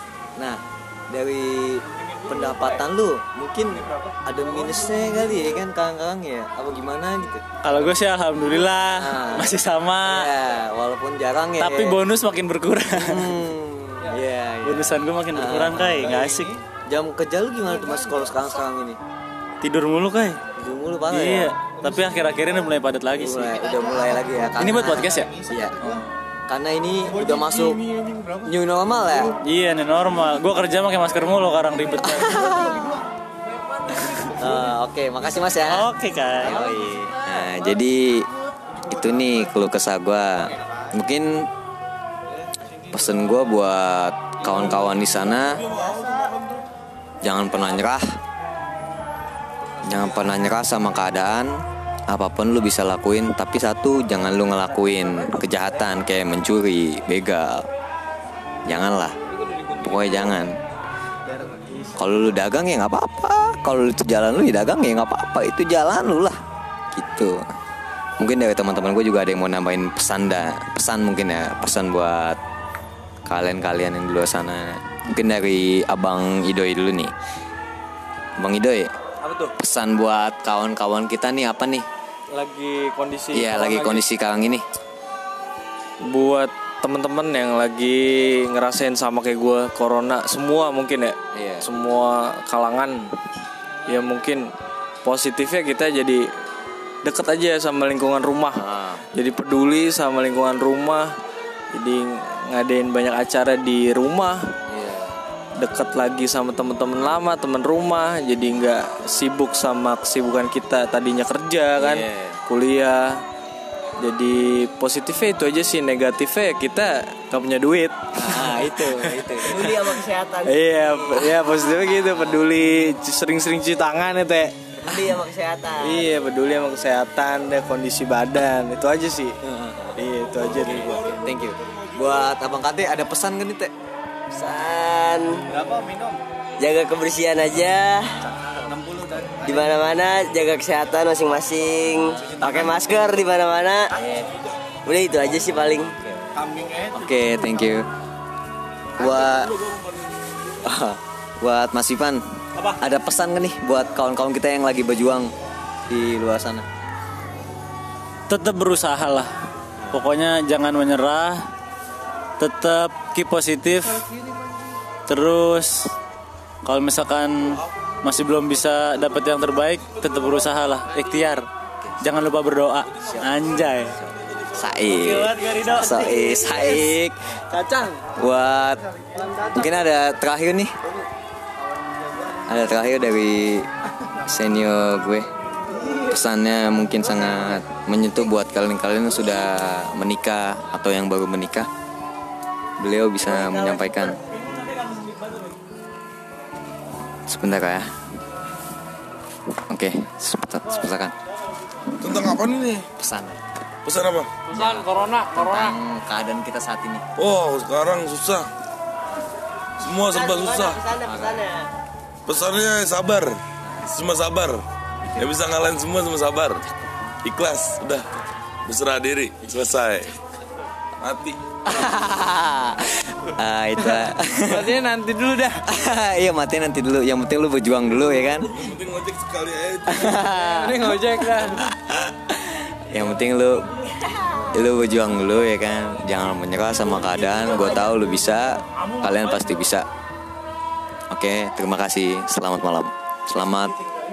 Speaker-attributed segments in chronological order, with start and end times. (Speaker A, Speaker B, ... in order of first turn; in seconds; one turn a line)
Speaker A: 0.4-7.4
Speaker B: 7.6-10.3
Speaker A: 8.9-12.0
Speaker B: 11.6-13.4
Speaker A: 12.9-16.2
Speaker B: 14.6-16.5
Speaker C: 16.1-16.5
Speaker A: 16.9-19.0
Speaker B: 19.6-20.4
Speaker A: 20.5-21.5
Speaker B: 21.1-23.4
Speaker C: 21.9-22.6
Speaker A: 23.1-25.9
Speaker C: 23.3-26.0
Speaker B: 24.6-25.3
Speaker A: 26.5-27.8
Speaker C: 27.1-28.5
Speaker A: 28.4-29.3
Speaker B: 29.4-32.4
Speaker A: 32.0-33.0
Speaker C: 32.4-32.9
Speaker A: 34.2-38.3
Speaker B: 35.6-36.7
Speaker A: 38.8-41.5
Speaker C: 38.9-39.3
Speaker C: 40.6-40.8
Speaker A: 42.9-45.6
Speaker A: 47.2-48.0
Speaker A: 49.8-51.5
Speaker A: 52.1-57.6
Speaker A: 58.7-59.1
Speaker D: 59.3-60.4
Speaker A: 59.8-60.5
Speaker C: 61.3-61.9
Speaker A: 61.9-66.3
Speaker A: 66.9-67.4
Speaker A: 68.2-72.4
Speaker A: 73.2-77.1
Speaker A: 78.4-78.9
Speaker D: 79.2-79.5
Speaker A: 79.6-81.8
Speaker D: 82.3-84.0
Speaker A: 83.3-84.6
Speaker D: 86.0-93.1
Speaker A: 91.3-91.7
Speaker D: 93.9-94.5
Speaker D: 95.0-96.2
Speaker D: 97.0-101.1
Speaker A: 98.5-99.0
Speaker D: 101.7-104.4
Speaker A: 104.7-105.2
Speaker D: 105.6-113.2
Speaker A: 111.8-112.4
Speaker D: 114.0-119.9
Speaker A: 118.1-119.7
Speaker E: 119.4-121.3
Speaker D: 120.4-124.5
Speaker E: 124.8-126.1
Speaker A: 124.9-125.2
Speaker D: 125.8-129.3
Speaker A: 129.4-130.0
Speaker D: 130.0-131.3
Speaker F: 130.6-131.3
Speaker A: 130.6-133.7
Speaker E: 134.3-135.4
Speaker C: 135.5-136.2
Speaker E: 136.6-138.1
Speaker C: 138.7-139.8
Speaker E: 139.4-144.2
Speaker A: 142.2-142.4
Speaker E: 144.8-145.9
Speaker C: 146.3-147.0
Speaker A: 146.9-147.9
Speaker A: 149.0-149.5
Speaker A: 150.6-155.3
Speaker A: 155.9-156.7
Speaker B: 158.3-159.3
Speaker B: 159.9-161.4
Speaker B: 162.4-164.0
Speaker B: 165.1-165.9
Speaker B: 166.6-171.4
Speaker A: 171.8-172.1
Speaker B: 172.0-173.9
Speaker A: 173.0-177.2
Speaker B: 174.9-176.6
Speaker D: 177.5-178.0
Speaker A: 178.1-178.9
Speaker C: 179.1-179.5
Speaker A: 179.4-180.7
Speaker C: 181.6-182.5
Speaker A: 182.4-183.7
Speaker A: 184.2-185.3
Speaker A: 185.9-191.7
Speaker A: 192.8-194.2
Speaker A: 197.3-197.9
Speaker A: 199.7-201.1
Speaker F: 202.0-202.9
Speaker A: 203.0-203.4
Speaker F: 203.8-204.4
Speaker D: 204.5-205.4
Speaker A: 204.5-207.0
Speaker F: 207.2-208.5
Speaker F: 209.8-210.9
Speaker E: 210.1-211.7
Speaker A: 211.0-211.4
Speaker F: 212.3-214.6
Speaker A: 213.6-213.9
Speaker F: 215.2-216.7
Speaker F: 217.2-218.1
Speaker F: 218.7-220.2
Speaker F: 221.0-221.4
Speaker A: 221.6-224.7
Speaker D: 223.8-225.6
Speaker A: 225.7-228.7
Speaker F: 228.6-230.2
Speaker A: 229.9-239.8
Speaker D: 230.2-231.7
Speaker A: 241.1-243.8